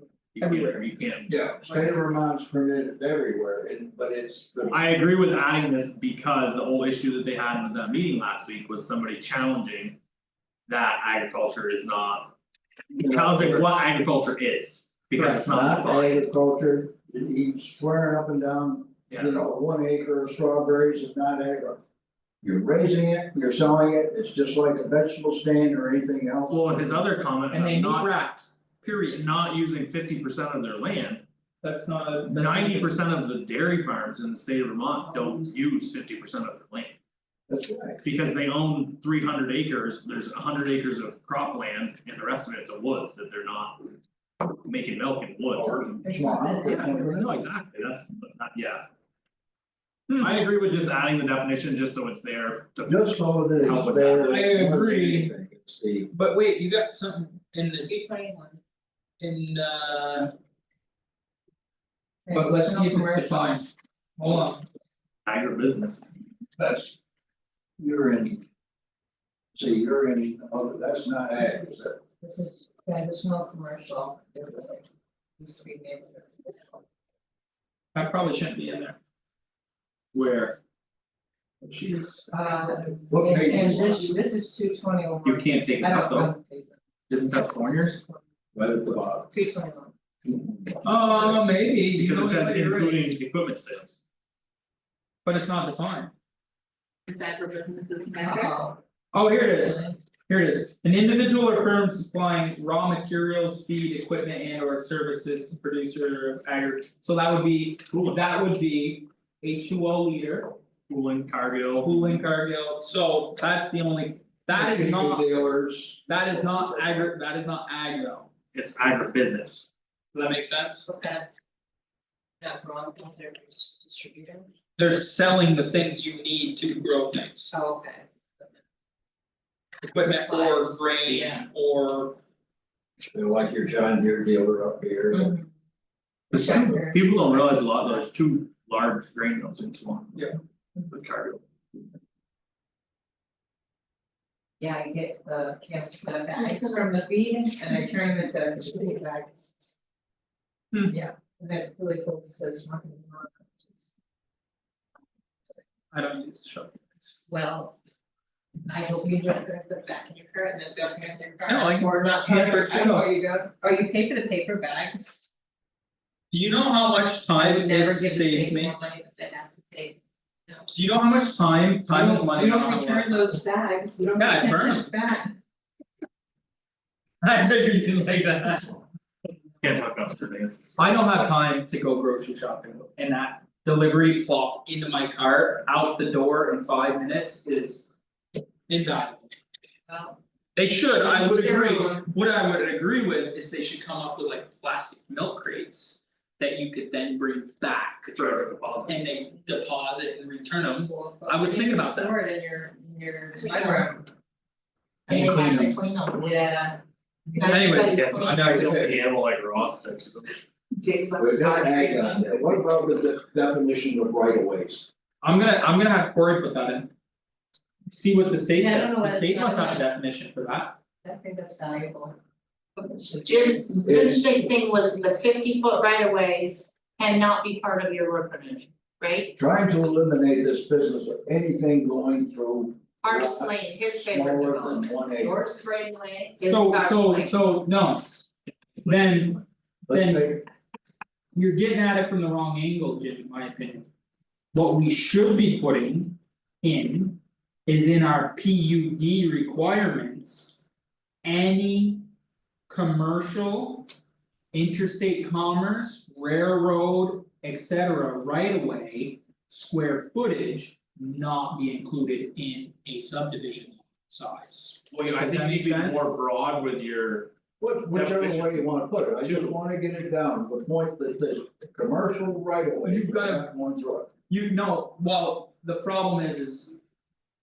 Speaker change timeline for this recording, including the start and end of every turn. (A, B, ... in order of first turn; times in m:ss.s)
0:00.3-0:01.4 A
0:00.4-0:00.8 B
0:01.3-0:04.8 C
0:04.7-0:10.0 A
0:10.7-0:12.4 A
0:13.0-0:13.7 C
0:13.0-0:16.2 A
0:15.2-0:15.4 B
0:15.4-0:21.8 C
0:19.1-0:19.4 A
0:22.4-0:26.9 C
0:26.5-0:28.1 A
0:27.5-0:29.3 B
0:29.2-0:31.2 A
0:31.6-0:33.0 B
0:32.3-0:37.0 A
0:37.5-0:38.0 C
0:38.0-0:43.9 A
0:44.6-0:46.0 A
0:45.6-0:47.4 C
0:46.0-0:47.4 D
0:46.6-0:48.8 A
0:50.1-0:50.4 B
0:50.2-0:54.5 A
0:52.9-0:56.1 C
0:54.2-0:55.3 B
0:56.1-0:57.9 B
0:57.8-0:58.6 D
0:59.2-1:00.3 B
1:02.3-1:03.6 D
1:02.3-1:04.6 B
1:05.3-1:06.1 A
1:06.6-1:07.0 C
1:07.8-1:08.4 C
1:09.5-1:12.0 C
1:12.2-1:14.9 D
1:15.4-1:16.8 D
1:18.0-1:19.0 B
1:20.1-1:20.6 A
1:21.6-1:22.3 A
1:22.3-1:26.8 D
1:23.1-1:24.2 C
1:25.2-1:26.3 A
1:27.1-1:28.0 A
1:28.5-1:29.3 C
1:29.3-1:29.9 D
1:30.3-1:30.6 C
1:30.8-1:33.1 B
1:32.0-1:34.0 A
1:35.2-1:36.1 B
1:38.1-1:38.8 D
1:38.1-1:38.5 E
1:39.1-1:50.6 B
1:47.9-1:48.2 A
1:50.9-1:52.2 A
1:51.8-1:55.3 B
1:54.5-1:57.1 C
1:56.1-1:58.3 B
1:58.5-1:59.7 A
2:00.1-2:00.9 B
2:00.9-2:01.3 D
2:02.4-2:04.5 D
2:04.8-2:07.5 B
2:07.5-2:08.5 D
2:09.9-2:12.2 B
2:09.9-2:11.4 D
2:13.0-2:15.4 C
2:15.1-2:15.5 D
2:16.3-2:17.6 D
2:16.3-2:20.2 A
2:20.9-2:21.4 A
2:24.6-2:29.7 D
2:30.7-2:31.0 B
2:30.9-2:33.9 D
2:35.9-2:37.2 B
2:37.3-2:37.8 D
2:38.7-2:45.3 D
2:41.4-2:43.1 B
2:46.3-2:48.7 B
2:47.4-2:50.7 D
2:50.7-2:53.3 B
2:51.9-2:55.4 D
2:54.2-2:54.9 B
2:57.2-2:58.8 B
2:59.6-3:00.8 A
3:00.8-3:07.9 B
3:08.7-3:09.4 B
3:09.9-3:10.2 D
3:10.6-3:22.2 B
3:11.0-3:12.0 D
3:18.2-3:19.0 A
3:20.6-3:24.1 D
3:23.4-3:23.9 E
3:25.1-3:26.3 E
3:25.1-3:25.8 B
3:26.2-3:28.0 D
3:27.4-3:28.6 E
3:27.4-3:28.9 B
3:27.8-3:30.4 A
3:30.8-3:32.5 D
3:31.2-3:34.9 C
3:35.2-3:36.9 B
3:37.9-3:40.8 B
3:38.6-3:39.8 D
3:41.0-3:42.2 D
3:42.8-3:44.1 D
3:43.2-3:49.4 E
3:43.8-3:44.2 C
3:49.4-3:55.4 C
3:53.0-3:57.1 E
3:56.4-4:00.3 B
3:56.8-3:57.3 D
3:59.9-4:00.5 C
4:01.3-4:03.9 B
4:04.5-4:10.5 B
4:11.2-4:12.1 B
4:12.7-4:13.9 B
4:14.5-4:26.1 B
4:24.9-4:27.4 A
4:27.6-4:34.1 C
4:27.9-4:29.6 A
4:32.8-4:33.5 B
4:34.3-4:36.8 B